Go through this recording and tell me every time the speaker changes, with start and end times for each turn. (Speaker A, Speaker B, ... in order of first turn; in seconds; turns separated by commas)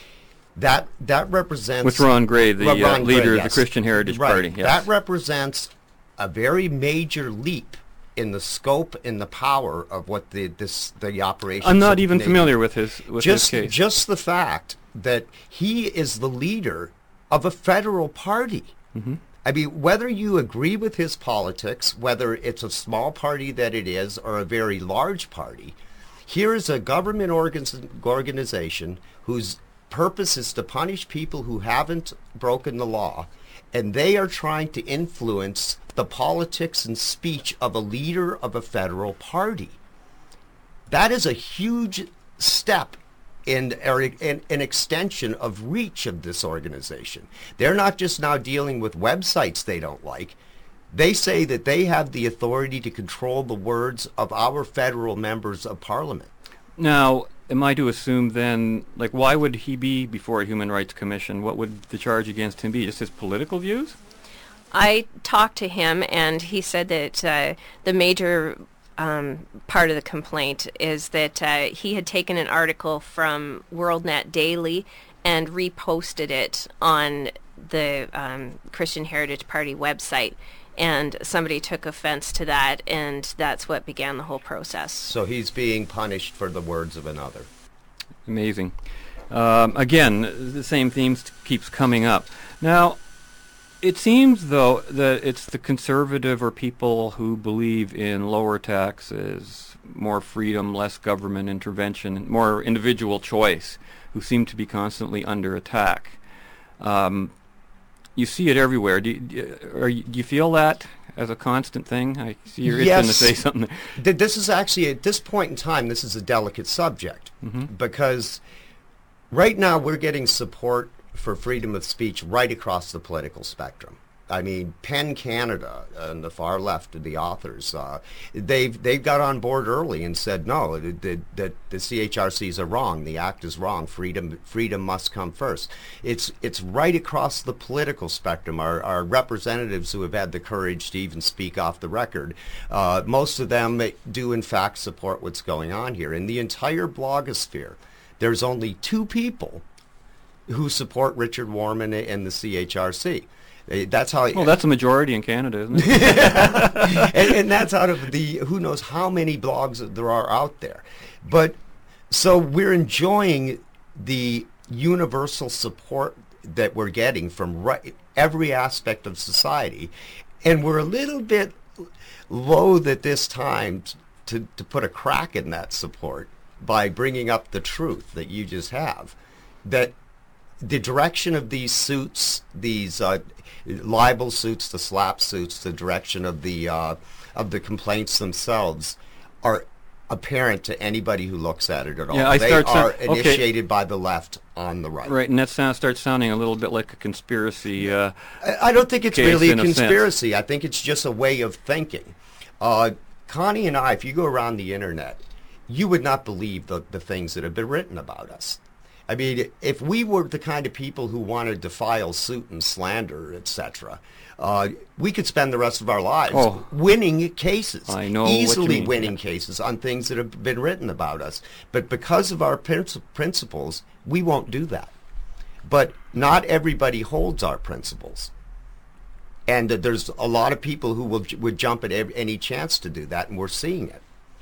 Speaker A: 0.6-12.6, Speaker B: 1.8-4.9, Speaker B: 11.6-13.8, Speaker A: 13.2-18.7, Speaker B: 18.9-19.2, Speaker A: 19.4-25.8, Speaker A: 26.3-39.8, Speaker A: 40.9-50.4, Speaker A: 50.9-56.3, Speaker B: 56.8-64.0, Speaker C: 64.7-85.1, Speaker A: 85.0-87.5, Speaker B: 88.3-88.7, Speaker B: 89.3-93.0, Speaker B: 93.8-106.2, Speaker B: 106.8-107.3, Speaker B: 108.2-114.0, Speaker A: 112.6-113.4, Speaker A: 114.0-118.4, Speaker B: 117.4-117.7, Speaker A: 119.3-149.6, Speaker A: 150.5-154.6, Speaker B: 154.3-157.1, Speaker A: 155.7-161.6, Speaker A: 162.1-169.9, Speaker A: 170.4-179.9, Speaker A: 180.6-195.2, Speaker B: 192.1-193.5, Speaker B: 195.1-198.1, Speaker A: 198.4-224.9, Speaker B: 199.1-200.1, Speaker B: 216.3-216.7, Speaker B: 217.9-219.1, Speaker A: 225.6-228.3, Speaker A: 229.5-234.0